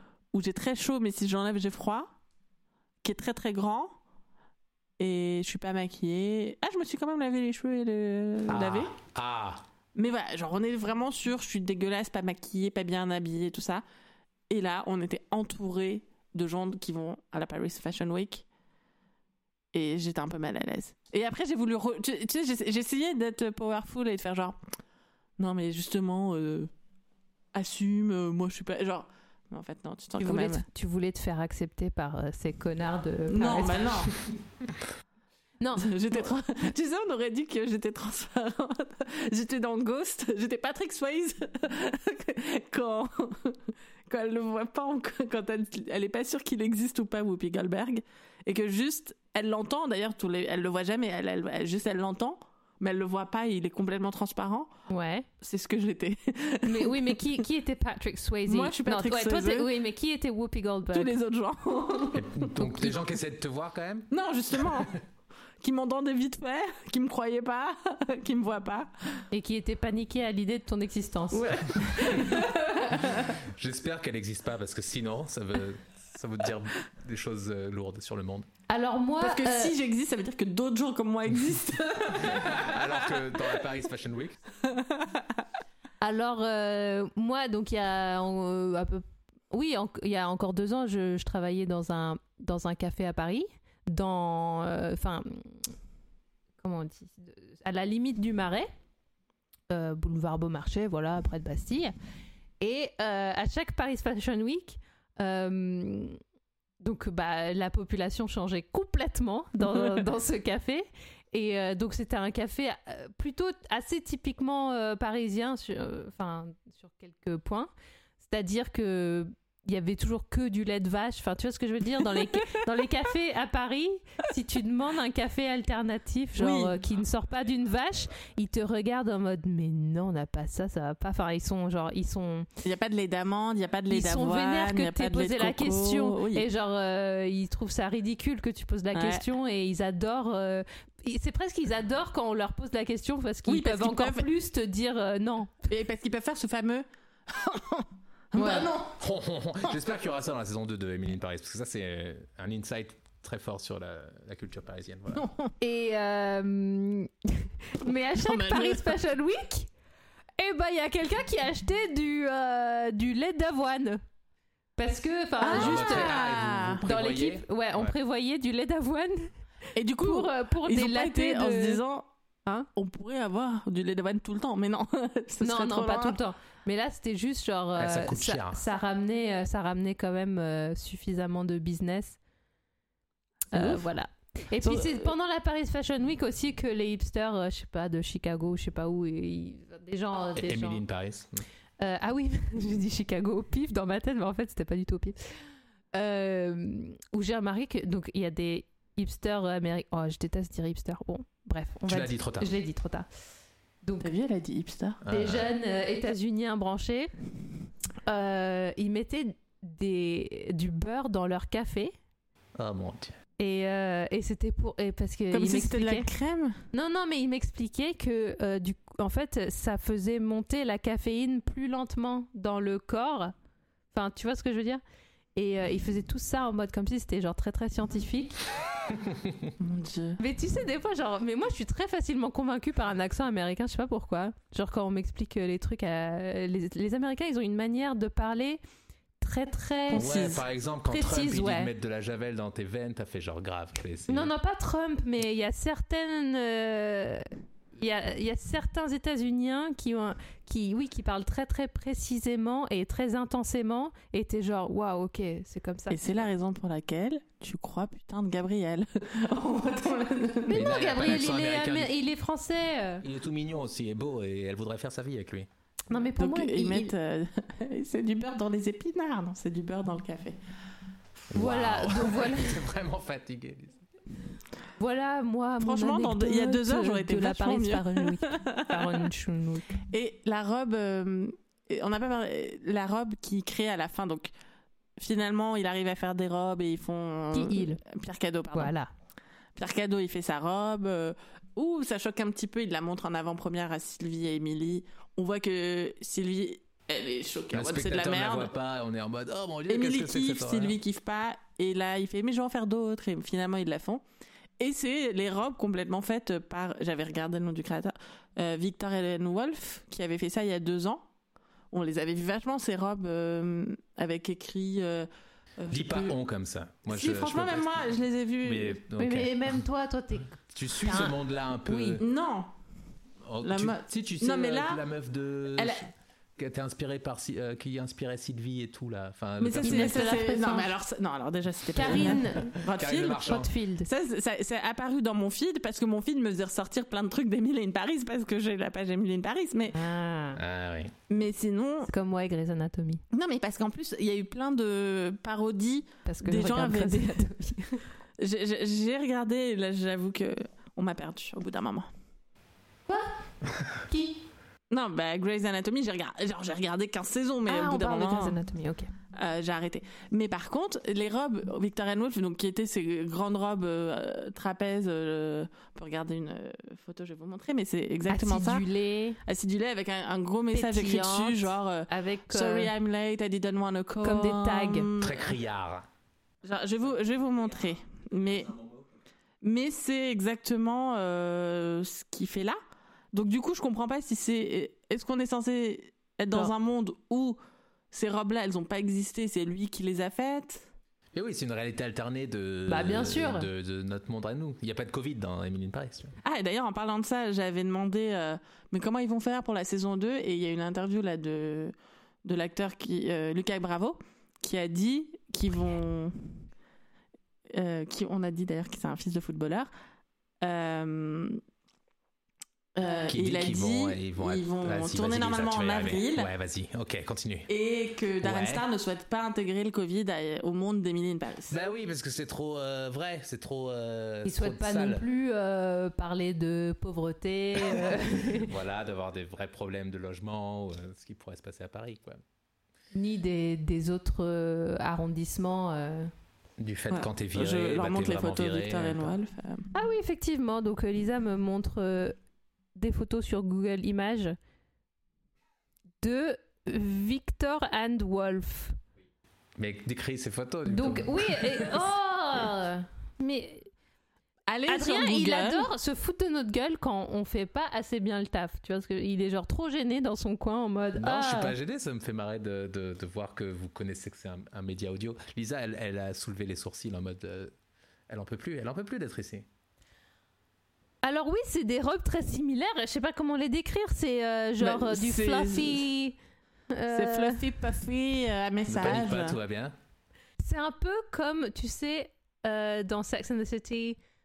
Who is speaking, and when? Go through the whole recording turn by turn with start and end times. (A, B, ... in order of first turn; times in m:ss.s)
0:00.3-0:02.1 A
0:03.0-0:04.0 A
0:05.0-0:08.9 A
0:08.5-0:09.6 B
0:09.9-0:13.8 A
0:14.5-0:18.4 A
0:19.7-0:24.6 A
0:25.4-0:26.7 A
0:27.5-0:30.6 A
0:30.2-0:34.2 C
0:33.3-0:34.1 A
0:35.6-0:36.3 C
0:35.8-0:54.7 A
0:54.9-0:55.3 C
0:55.4-0:57.4 A
0:56.6-1:01.2 C
0:58.4-0:59.7 A
1:00.9-1:02.9 A
1:02.1-1:04.1 B
1:04.1-1:05.0 A
1:05.6-1:09.2 A
1:09.3-1:12.6 C
1:11.3-1:13.3 A
1:13.3-1:18.5 B
1:18.7-1:19.7 C
1:19.2-1:23.3 A
1:22.1-1:24.4 B
1:24.6-1:25.3 A
1:26.0-1:35.7 C
1:36.6-1:38.7 C
1:39.7-1:41.9 C
1:42.6-1:46.2 C
1:46.8-2:12.5 C
2:06.4-2:06.7 A
2:12.6-2:16.4 A
2:13.9-2:25.7 C
2:18.9-2:19.2 A
2:23.5-2:24.3 A
2:25.7-2:29.0 A
2:28.3-2:28.7 C
2:29.0-2:35.2 B
2:35.1-2:35.5 A
2:35.6-2:39.7 C
2:38.1-2:39.0 A
2:40.4-2:44.0 C
2:44.8-2:49.3 C
2:45.4-2:46.8 A
2:45.5-2:48.0 B
2:49.7-2:52.1 A
2:50.0-2:51.8 C
2:52.7-2:56.2 A
2:55.4-3:02.2 C
2:57.7-2:58.6 B
3:03.5-3:10.8 C
3:03.6-3:03.8 A
3:04.6-3:05.1 A
3:10.3-3:11.4 B
3:11.8-3:15.2 C
3:15.9-3:23.1 C
3:21.9-3:22.5 B
3:23.8-3:24.1 C
3:24.0-3:25.0 A
3:25.0-3:25.5 B
3:25.1-3:27.1 C
3:28.0-3:31.9 C
3:32.6-3:33.2 B
3:33.4-3:36.1 C
3:35.3-3:36.6 A
3:36.7-3:43.3 C
3:43.9-3:44.8 C
3:45.3-3:48.4 C
3:49.6-3:50.2 A
3:50.2-3:58.6 C
3:59.2-4:01.7 C
3:59.9-4:00.4 A
3:59.9-4:04.3 B
4:04.1-4:16.3 C
4:15.9-4:20.7 A
4:20.5-4:23.0 C
4:20.5-4:21.9 B
4:23.0-4:25.5 B
4:25.9-4:26.9 C
4:26.2-4:30.4 A
4:31.3-4:33.8 B
4:31.3-4:32.6 C
4:34.8-4:39.8 C
4:35.6-4:39.1 A
4:39.9-4:44.3 A
4:45.0-4:48.7 A
4:47.3-4:47.8 C
4:48.5-4:48.9 C
4:49.6-4:58.5 A
4:57.5-5:00.8 B
4:59.7-5:04.0 A
5:04.6-5:11.0 A
5:11.7-5:15.1 A
5:15.6-5:16.2 A
5:15.7-5:19.6 B
5:16.9-5:18.8 A
5:19.0-5:22.0 C
5:20.5-5:22.0 B
5:22.0-5:22.5 A
5:23.2-5:30.2 B
5:23.4-5:24.8 A
5:25.5-5:25.9 A
5:29.4-5:39.8 A
5:29.6-5:30.8 C
5:31.7-5:33.9 C
5:31.8-5:33.5 B
5:39.7-5:40.4 C
5:40.3-5:40.9 B
5:41.1-5:41.9 A
5:41.9-5:43.0 C
5:43.1-5:47.4 A
5:46.0-5:47.8 C
5:48.2-5:51.9 A
5:53.9-5:54.2 C
5:54.7-5:58.4 A
5:57.5-5:58.9 C
5:59.1-6:08.6 A
6:08.1-6:09.2 C
6:09.2-6:15.3 A
6:10.5-6:12.7 C
6:14.0-6:14.9 C
6:15.0-6:15.8 B
6:16.4-6:18.5 A
6:17.3-6:18.9 B
6:19.4-6:22.6 A
6:23.1-6:27.4 A
6:27.9-6:30.7 A
6:31.1-6:36.1 B
6:32.7-6:33.5 C
6:36.2-6:46.4 A
6:47.5-6:49.7 A
6:50.4-6:51.4 A
6:52.8-6:56.3 A
6:53.1-6:57.5 B
6:57.5-7:01.6 A
6:58.2-6:58.6 B
7:01.5-7:05.0 B
7:04.2-7:08.5 C
7:07.7-7:12.2 B
7:12.9-7:16.1 C
7:16.6-7:19.2 B
7:16.9-7:19.7 A
7:19.7-7:22.2 C
7:22.7-7:24.4 C
7:26.0-7:28.8 C
7:29.6-7:31.7 B
7:30.7-7:33.7 C
7:34.5-7:35.7 A
7:34.7-7:41.6 C
7:41.0-7:47.5 B
7:48.1-7:49.5 B
7:51.0-7:56.2 C
7:54.6-7:55.9 A
7:56.7-7:57.5 C
7:56.9-7:59.4 A
7:58.7-7:59.7 B
8:00.4-8:04.0 C